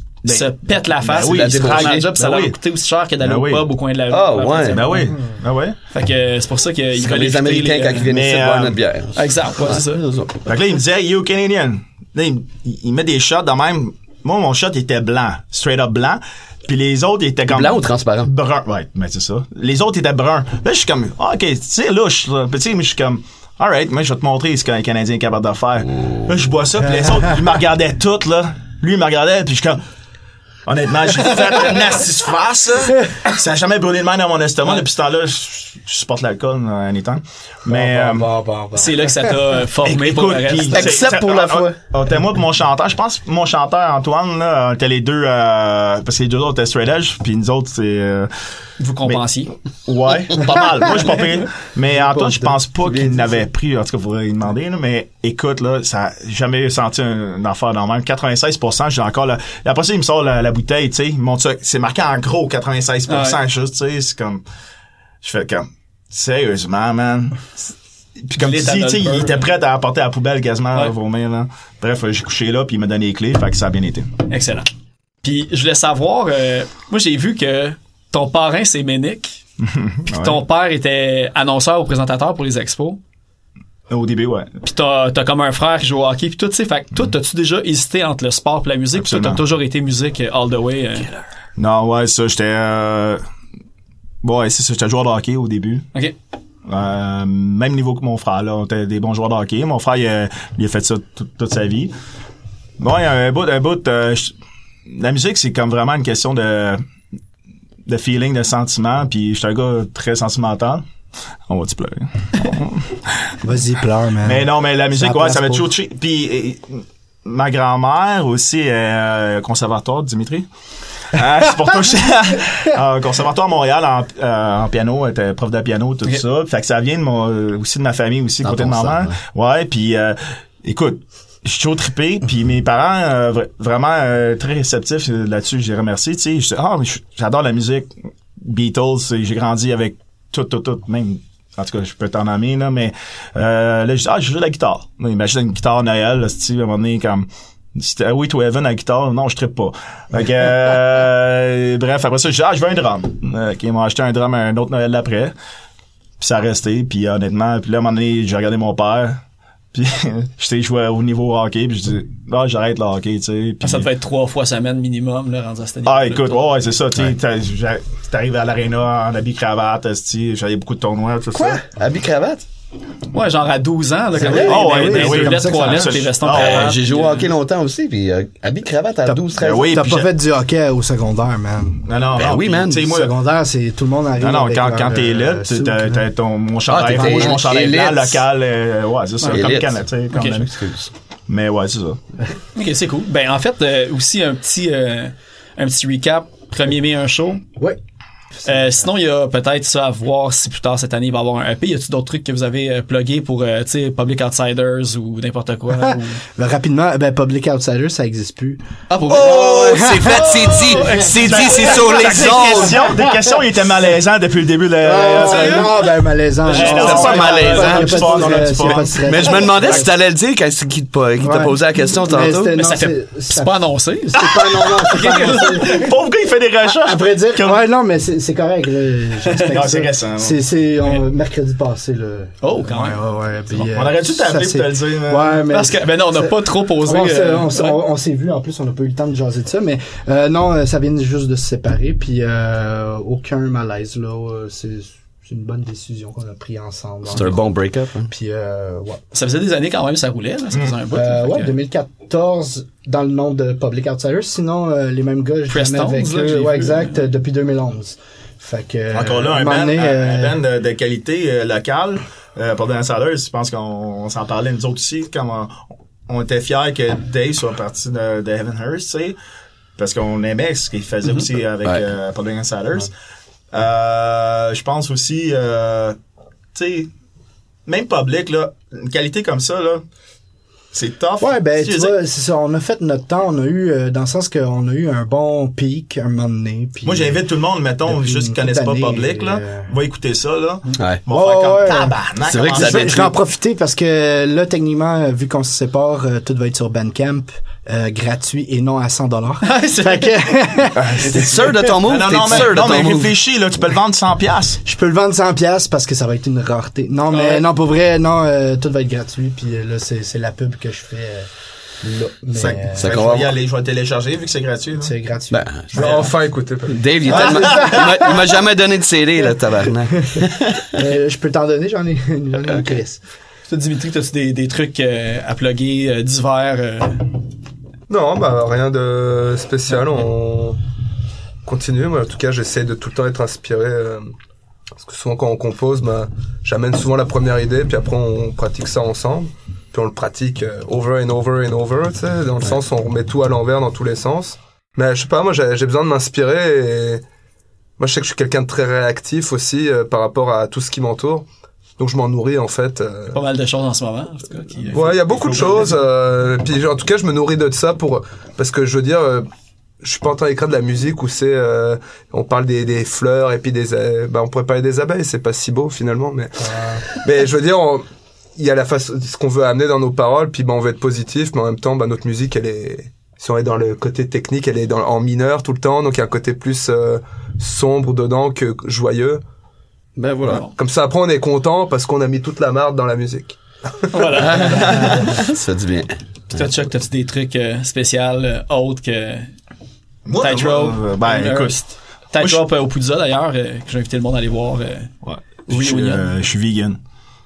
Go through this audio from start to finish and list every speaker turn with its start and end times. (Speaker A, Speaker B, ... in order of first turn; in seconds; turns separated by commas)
Speaker A: 0.2-2.6, Speaker B: 0.2-5.1, Speaker C: 1.2-2.1, Speaker A: 3.2-3.7, Speaker C: 4.1-4.9, Speaker A: 4.7-5.8, Speaker B: 5.9-8.1, Speaker C: 7.0-10.4, Speaker A: 8.1-8.8, Speaker B: 9.1-10.0, Speaker A: 10.4-29.8, Speaker C: 17.5-18.3, Speaker A: 30.6-38.3, Speaker D: 37.7-39.4, Speaker B: 38.8-40.9, Speaker A: 39.8-48.3, Speaker C: 40.7-41.8, Speaker B: 48.8-49.5, Speaker A: 49.9-64.4, Speaker D: 52.1-52.5, Speaker B: 63.1-63.4, Speaker A: 65.2-67.5, Speaker A: 68.3-74.1, Speaker B: 68.4-69.5, Speaker B: 74.3-74.7, Speaker B: 75.2-79.4, Speaker A: 79.7-80.4, Speaker B: 80.1-83.0, Speaker A: 83.9-84.5, Speaker B: 84.6-91.1, Speaker A: 88.9-89.4, Speaker A: 91.6-93.2, Speaker A: 94.2-95.9, Speaker A: 96.7-101.9, Speaker A: 102.8-104.3, Speaker A: 104.9-106.8, Speaker A: 107.8-110.8, Speaker A: 111.5-113.3, Speaker D: 113.4-115.7, Speaker A: 114.2-120.5, Speaker A: 121.1-155.3, Speaker C: 128.4-129.2, Speaker A: 156.2-159.2, Speaker A: 159.7-163.9, Speaker B: 163.6-166.4, Speaker A: 165.8-171.6, Speaker C: 171.3-172.4, Speaker B: 173.1-177.3, Speaker C: 174.2-174.4, Speaker D: 174.2-176.0, Speaker A: 174.2-176.8, Speaker C: 176.3-179.7, Speaker D: 179.1-181.8, Speaker A: 179.4-180.1, Speaker A: 181.8-183.1, Speaker C: 182.2-182.8, Speaker D: 182.8-186.0, Speaker A: 184.2-190.5, Speaker C: 186.7-188.2, Speaker D: 187.0-187.4, Speaker C: 189.2-190.9, Speaker B: 190.1-190.4, Speaker A: 191.3-192.0, Speaker B: 192.5-197.4, Speaker B: 198.4-206.2, Speaker D: 205.8-208.6, Speaker B: 208.9-212.8, Speaker C: 209.1-212.8, Speaker D: 209.2-210.9, Speaker A: 211.2-215.9, Speaker D: 214.8-219.9, Speaker B: 215.1-215.8, Speaker B: 216.4-218.4, Speaker A: 216.5-219.8, Speaker C: 216.5-218.2, Speaker C: 218.9-222.6, Speaker D: 221.2-223.6, Speaker B: 222.6-225.9, Speaker D: 224.1-225.9, Speaker A: 224.1-227.6, Speaker D: 226.7-247.5, Speaker B: 229.2-229.6, Speaker A: 229.4-230.4, Speaker B: 232.4-233.0, Speaker A: 233.5-235.4, Speaker B: 235.5-237.8, Speaker C: 247.1-248.1, Speaker D: 248.1-249.0, Speaker B: 249.1-251.5, Speaker D: 250.9-260.4, Speaker B: 255.5-256.9, Speaker A: 258.9-269.2, Speaker A: 269.8-272.9, Speaker A: 273.5-276.0, Speaker A: 276.5-276.9, Speaker A: 277.6-279.8, Speaker A: 280.7-282.0, Speaker D: 281.2-287.2, Speaker A: 286.8-293.1, Speaker D: 287.9-289.7, Speaker D: 291.1-301.8, Speaker C: 292.3-293.1, Speaker B: 299.4-300.2, Speaker A: 300.9-304.6, Speaker C: 301.1-303.1, Speaker D: 304.6-311.3, Speaker B: 307.1-307.5, Speaker D: 311.8-313.0, Speaker A: 312.3-314.9, Speaker C: 312.8-313.3, Speaker D: 314.8-316.0, Speaker C: 315.3-316.1, Speaker E: 315.7-317.3, Speaker C: 316.6-320.8, Speaker D: 317.1-318.3, Speaker A: 317.2-317.8, Speaker D: 320.7-323.0, Speaker B: 323.5-327.1, Speaker E: 327.9-330.6, Speaker E: 331.4-334.1, Speaker E: 334.8-347.0, Speaker E: 347.8-351.2, Speaker E: 351.8-353.2, Speaker B: 353.1-355.7, Speaker E: 354.7-359.3, Speaker A: 355.1-355.6, Speaker E: 359.8-367.8, Speaker E: 368.4-379.2, Speaker C: 380.0-380.4, Speaker E: 380.4-383.4, Speaker B: 383.9-385.2, Speaker E: 384.0-384.3, Speaker C: 384.1-386.4, Speaker B: 386.3-389.3, Speaker A: 390.1-391.6, Speaker B: 390.2-394.9, Speaker A: 395.0-396.8, Speaker B: 395.5-396.1